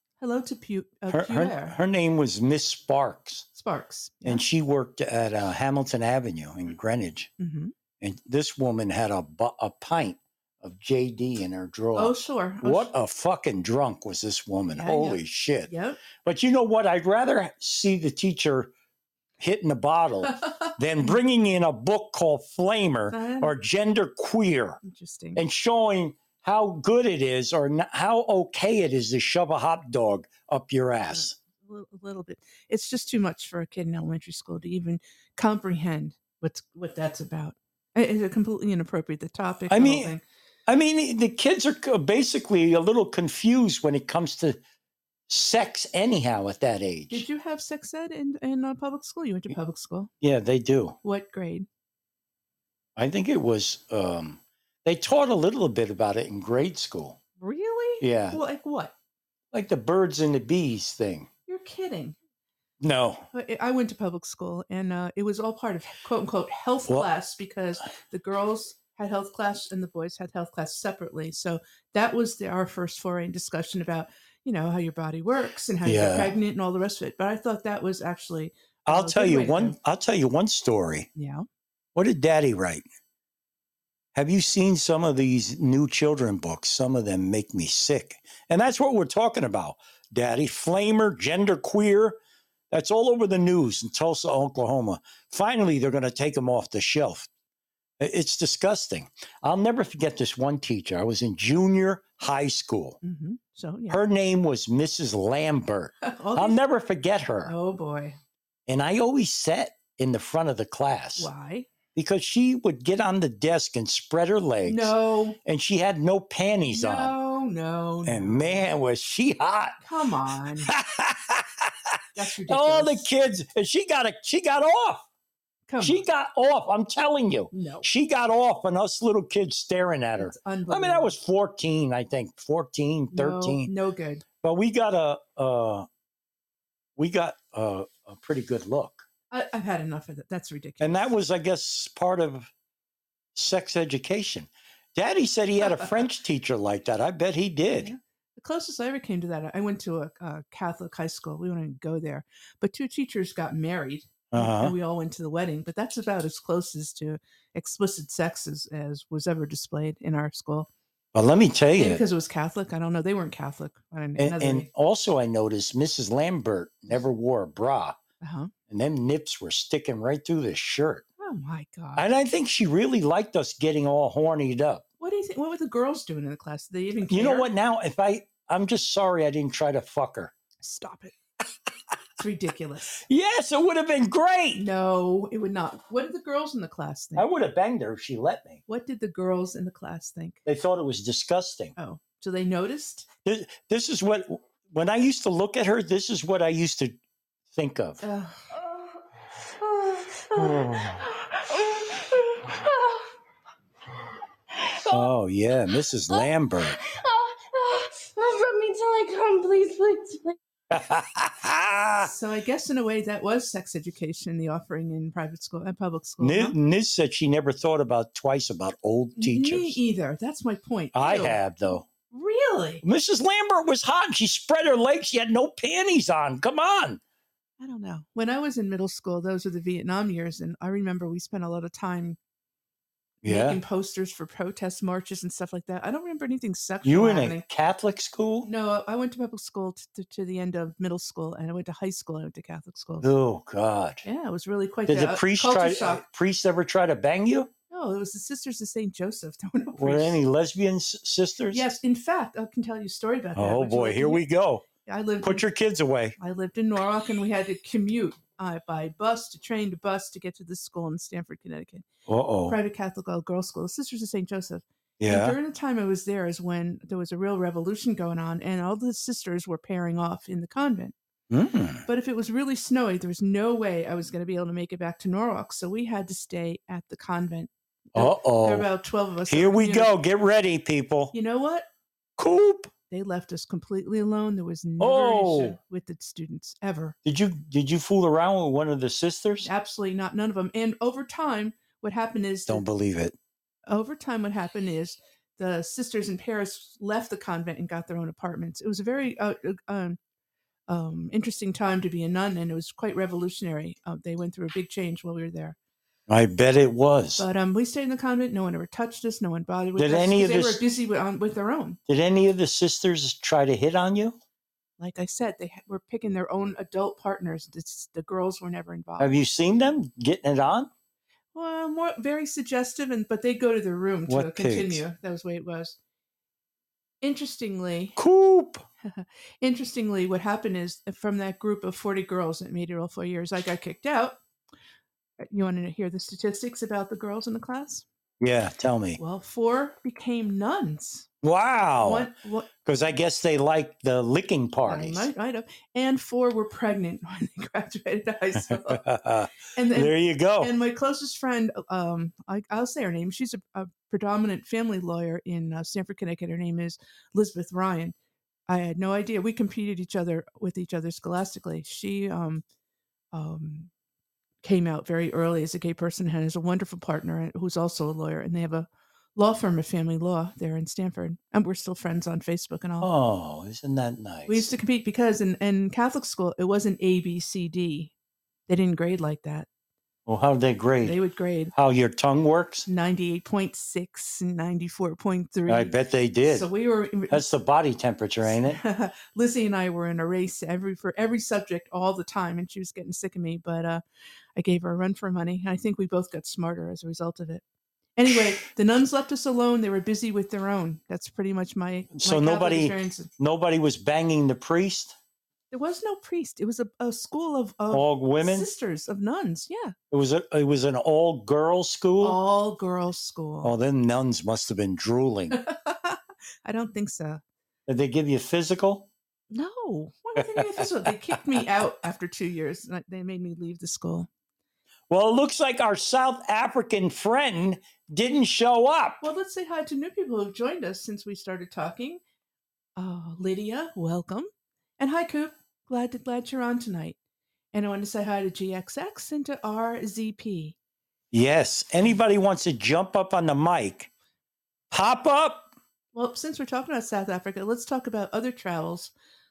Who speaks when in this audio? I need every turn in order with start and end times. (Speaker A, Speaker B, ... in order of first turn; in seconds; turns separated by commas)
Speaker A: 0.2-1.8, Speaker B: 1.1-3.5, Speaker A: 3.5-4.4, Speaker B: 4.2-7.3, Speaker A: 7.4-7.7, Speaker B: 8.0-15.7, Speaker A: 12.0-12.9, Speaker A: 14.8-16.0, Speaker B: 16.2-18.7, Speaker B: 19.4-24.8, Speaker A: 20.3-21.1, Speaker A: 23.1-23.5, Speaker A: 24.8-25.4, Speaker B: 25.4-31.4, Speaker A: 31.1-40.2, Speaker B: 39.7-40.1, Speaker B: 40.7-44.6, Speaker B: 45.3-47.3, Speaker A: 47.1-50.1, Speaker B: 50.2-51.0, Speaker A: 51.0-51.7, Speaker B: 53.0-57.2, Speaker A: 57.4-58.9, Speaker B: 58.0-58.4, Speaker B: 59.5-61.3, Speaker A: 61.5-62.2, Speaker B: 62.8-63.3, Speaker A: 63.3-79.8, Speaker B: 75.8-76.3, Speaker B: 78.9-81.1, Speaker A: 81.2-81.5, Speaker B: 82.0-82.8, Speaker B: 84.2-92.2, Speaker B: 92.7-97.3, Speaker B: 98.0-103.0, Speaker A: 103.0-104.0, Speaker B: 103.9-107.5, Speaker A: 106.0-106.6, Speaker A: 107.5-108.2, Speaker B: 108.7-111.3, Speaker A: 111.2-111.7, Speaker B: 112.0-117.2, Speaker A: 114.7-115.4, Speaker A: 116.7-118.7, Speaker B: 118.0-119.8, Speaker A: 119.8-120.7, Speaker B: 120.7-122.0, Speaker A: 122.2-123.1, Speaker B: 122.5-125.1, Speaker A: 125.7-126.0, Speaker B: 125.8-133.7, Speaker A: 127.5-127.9, Speaker A: 130.2-131.1, Speaker A: 133.1-134.2, Speaker B: 134.4-135.9, Speaker B: 137.0-139.1, Speaker A: 139.3-141.1, Speaker B: 140.8-142.5, Speaker B: 143.4-147.9, Speaker A: 145.6-146.1, Speaker A: 147.7-160.7, Speaker B: 154.3-154.8, Speaker B: 161.1-162.0, Speaker A: 161.8-164.7, Speaker B: 164.2-168.0, Speaker A: 168.2-168.5, Speaker B: 168.7-171.1, Speaker A: 171.2-172.1, Speaker B: 172.0-174.8, Speaker A: 175.0-177.5, Speaker B: 177.1-180.3, Speaker A: 180.6-181.1, Speaker A: 182.2-183.0, Speaker B: 183.1-184.6, Speaker A: 184.6-187.3, Speaker B: 187.2-188.6, Speaker A: 188.7-190.4, Speaker B: 190.5-191.7, Speaker A: 191.8-193.1, Speaker B: 193.2-197.0, Speaker B: 197.5-198.0, Speaker A: 198.0-198.4, Speaker C: 198.5-203.1, Speaker B: 200.4-201.1, Speaker C: 204.5-205.1, Speaker B: 204.9-206.8, Speaker C: 206.1-210.4, Speaker B: 210.7-212.1, Speaker A: 212.0-216.6, Speaker B: 216.2-219.8, Speaker A: 219.2-221.4, Speaker B: 220.9-221.9, Speaker A: 222.1-222.8, Speaker B: 222.8-227.0, Speaker A: 227.6-232.2, Speaker B: 233.2-233.6, Speaker A: 233.2-237.4, Speaker B: 236.8-238.5, Speaker A: 238.4-243.1, Speaker B: 243.0-244.0, Speaker A: 244.0-246.0, Speaker B: 244.9-247.5, Speaker A: 247.7-250.2, Speaker B: 249.8-251.7, Speaker A: 251.5-254.2, Speaker B: 253.4-254.7, Speaker A: 254.8-255.4, Speaker B: 255.2-256.2, Speaker A: 256.2-261.9, Speaker B: 262.1-262.6, Speaker A: 262.5-270.9, Speaker B: 265.0-265.4, Speaker B: 271.3-271.8, Speaker A: 271.9-279.9, Speaker B: 278.0-278.7, Speaker B: 279.3-281.1, Speaker A: 281.1-281.7, Speaker B: 282.2-282.7, Speaker A: 282.9-287.0, Speaker B: 284.8-285.6, Speaker B: 287.1-289.5, Speaker A: 289.4-292.6, Speaker B: 292.5-293.1, Speaker A: 293.7-300.0, Speaker A: 300.7-305.6, Speaker B: 306.1-307.3, Speaker A: 307.2-311.8, Speaker B: 309.8-310.6, Speaker B: 311.9-314.2, Speaker A: 314.8-319.1, Speaker B: 319.0-320.7, Speaker A: 321.4-325.8, Speaker B: 324.1-324.8, Speaker A: 327.0-328.0, Speaker B: 328.0-328.6, Speaker A: 328.8-334.2, Speaker A: 335.2-337.9, Speaker B: 338.2-339.0, Speaker A: 339.0-341.1, Speaker B: 341.2-342.1, Speaker A: 341.8-342.5, Speaker B: 342.6-345.1, Speaker A: 344.6-348.8, Speaker B: 348.5-350.5, Speaker A: 349.6-357.9, Speaker A: 358.5-362.4, Speaker A: 363.1-363.7, Speaker A: 364.4-372.9, Speaker B: 372.8-374.5, Speaker A: 374.3-377.9, Speaker A: 378.5-379.5, Speaker B: 380.1-381.0, Speaker A: 380.8-381.5, Speaker B: 381.5-382.7, Speaker A: 382.7-385.7, Speaker B: 385.5-386.5, Speaker A: 386.3-387.2, Speaker B: 387.1-388.6, Speaker A: 388.2-393.8, Speaker A: 394.4-397.4, Speaker A: 398.0-403.1, Speaker B: 402.0-404.9, Speaker A: 405.5-409.8, Speaker B: 407.7-408.5, Speaker B: 409.9-412.2, Speaker A: 412.0-413.6, Speaker B: 413.4-415.4, Speaker A: 415.3-417.2, Speaker B: 417.7-418.9, Speaker A: 419.3-424.1, Speaker B: 420.2-421.4, Speaker B: 424.9-429.0, Speaker A: 429.0-432.0, Speaker A: 432.8-437.0, Speaker A: 437.5-440.6, Speaker B: 441.1-443.9, Speaker B: 444.7-445.5, Speaker A: 445.9-448.9